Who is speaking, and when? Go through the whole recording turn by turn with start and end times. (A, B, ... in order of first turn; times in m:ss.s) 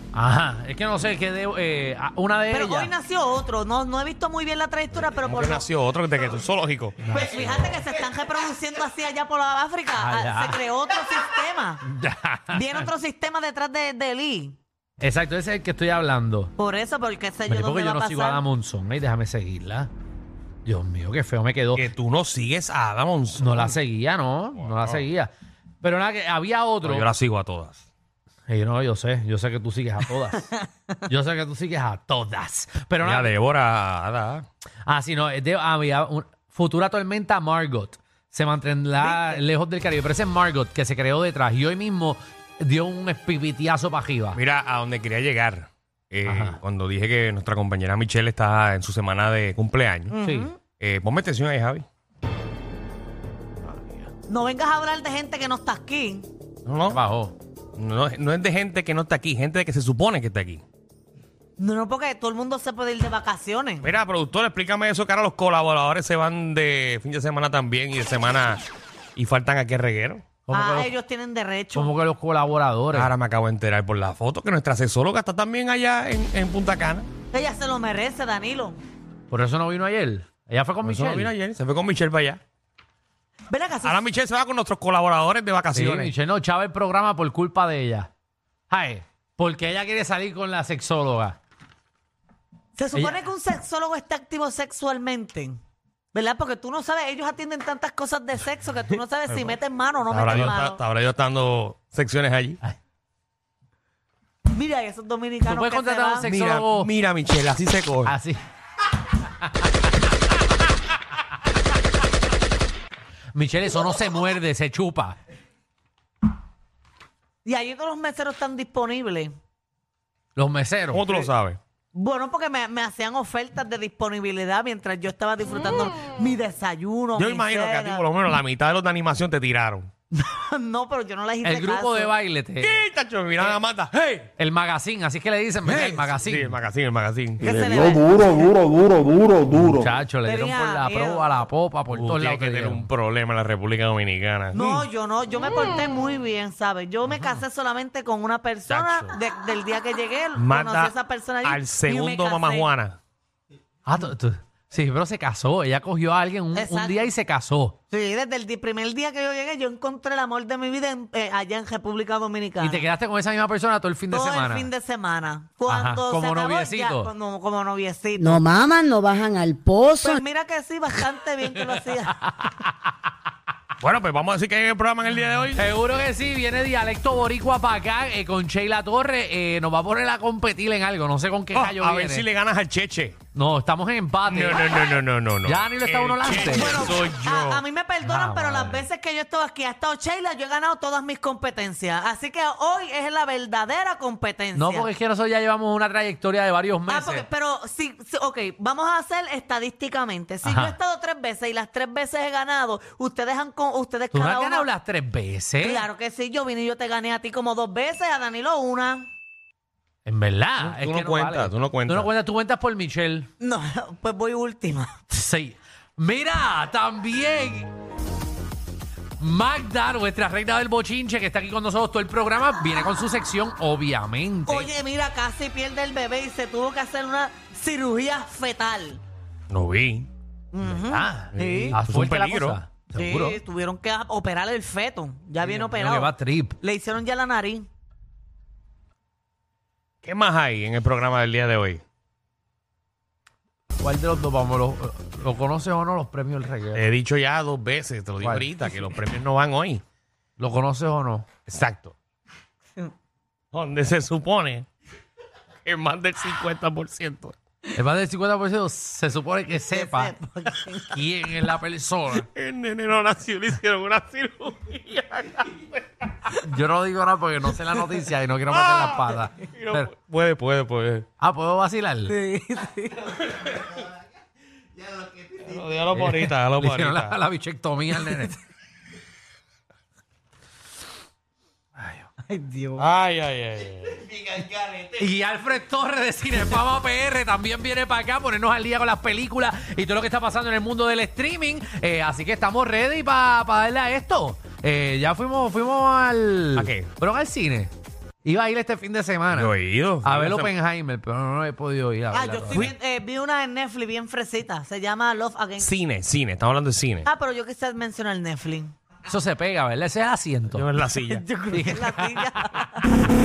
0:00.1-0:02.9 A
0:02.5-0:05.6 B
0:05.2-0:07.1 C
0:07.0-0:07.8 A
0:07.1-0:11.8 B
0:10.0-0:10.6 A
0:11.8-0:12.9 A
0:12.5-0:14.6 B
0:15.0-0:16.5 A
0:16.6-0:18.4 B
0:17.5-0:19.9 A
0:20.7-0:21.9 A
0:21.8-0:23.8 C
0:23.4-0:25.3 A
0:24.6-0:25.0 C
0:25.8-0:27.1 A
0:26.8-0:27.8 C
0:28.5-0:30.5 A
0:31.1-0:33.3 A
0:33.0-0:34.5 C
0:34.9-0:44.4 A
0:39.0-0:39.4 B
0:44.4-0:50.1 C
0:46.2-0:46.6 A
0:50.1-0:50.6 B
0:50.2-0:50.5 A
0:50.7-0:51.8 C
0:53.7-0:54.0 A
0:54.3-0:56.3 B
0:56.7-0:57.0 C
0:56.9-0:57.4 A
0:57.8-1:00.6 C
1:01.6-1:03.9 B
1:03.8-1:08.6 C
1:09.2-1:10.3 C
1:10.5-1:10.9 A
1:10.5-1:11.9 B
1:11.8-1:13.1 A
1:12.9-1:17.1 C
1:17.3-1:18.8 B
1:19.3-1:21.3 A
1:20.8-1:22.4 C
1:23.5-1:24.0 B
1:23.8-1:26.1 C
1:25.7-1:28.1 A
1:28.7-1:31.4 A
1:32.8-1:35.6 B
1:36.1-1:40.8 B
1:40.1-1:42.6 C
1:44.5-1:46.3 B
1:45.5-1:46.9 A
1:46.2-1:48.2 C
1:48.0-1:48.4 A
1:53.3-1:55.2 A
1:57.4-1:59.3 B
2:00.4-2:01.1 A
2:00.9-2:01.6 C
2:01.9-2:08.1 B
2:07.2-2:09.9 C
2:10.1-2:12.1 B
2:11.4-2:12.7 A
2:12.6-2:14.3 C
2:14.4-2:16.6 A
2:15.7-2:17.5 C
2:17.4-2:18.6 B
2:17.6-2:19.6 D
2:19.4-2:22.9 A
2:20.2-2:21.3 B
2:21.9-2:24.8 C
2:24.5-2:32.7 B
2:28.7-2:29.1 C
2:30.4-2:33.0 C
2:33.9-2:37.8 A
2:36.6-2:37.1 B
2:37.9-2:42.8 B
2:42.6-2:44.7 A
2:44.1-2:48.5 B
2:45.7-2:47.1 A
2:48.2-2:50.2 E
2:50.0-2:52.3 B
2:51.7-2:52.7 A
2:53.8-2:55.7 C
2:55.6-3:02.3 A
3:01.5-3:03.2 C
3:03.3-3:04.7 A
3:04.3-3:07.6 C
3:05.4-3:07.2 A
3:06.4-3:14.9 B
3:08.0-3:08.8 A
3:14.6-3:17.3 A
3:16.9-3:24.7 B
3:20.4-3:20.8 A
3:24.1-3:25.9 A
3:25.6-3:29.1 B
3:30.1-3:33.3 A
3:30.6-3:32.1 C
3:33.4-3:35.0 B
3:35.1-3:37.7 A
3:39.2-3:44.7 A
3:44.5-3:49.0 B
3:49.5-3:50.1 C
3:50.5-3:51.8 B
3:50.6-3:53.4 A
3:51.3-3:52.6 C
3:53.0-3:57.7 B
3:55.6-3:56.6 A
4:00.0-4:01.8 C
4:03.8-4:06.9 A
4:06.8-4:09.8 C
4:08.2-4:08.5 A
4:10.4-4:11.3 A
4:11.5-4:12.0 C
4:13.5-4:14.7 C
4:15.7-4:17.4 C
4:17.8-4:22.3 A
4:19.7-4:21.0 B
4:22.1-4:25.8 C
4:26.3-4:29.9 A
4:28.5-4:31.1 C
4:31.2-4:32.2 A
4:32.1-4:33.1 B
4:33.3-4:33.7 C
4:35.2-4:37.2 C
4:35.9-4:38.4 A
4:42.3-4:42.9 B
4:42.8-4:44.3 C
4:44.8-4:57.7 A
4:56.6-4:56.9 C
4:58.2-5:02.7 A
4:59.3-5:00.5 C
5:02.1-5:05.7 B
5:05.6-5:07.1 C
5:07.0-5:08.7 B
5:09.1-5:10.7 A
5:10.5-5:11.2 C
5:11.0-5:13.0 B
5:11.5-5:12.4 A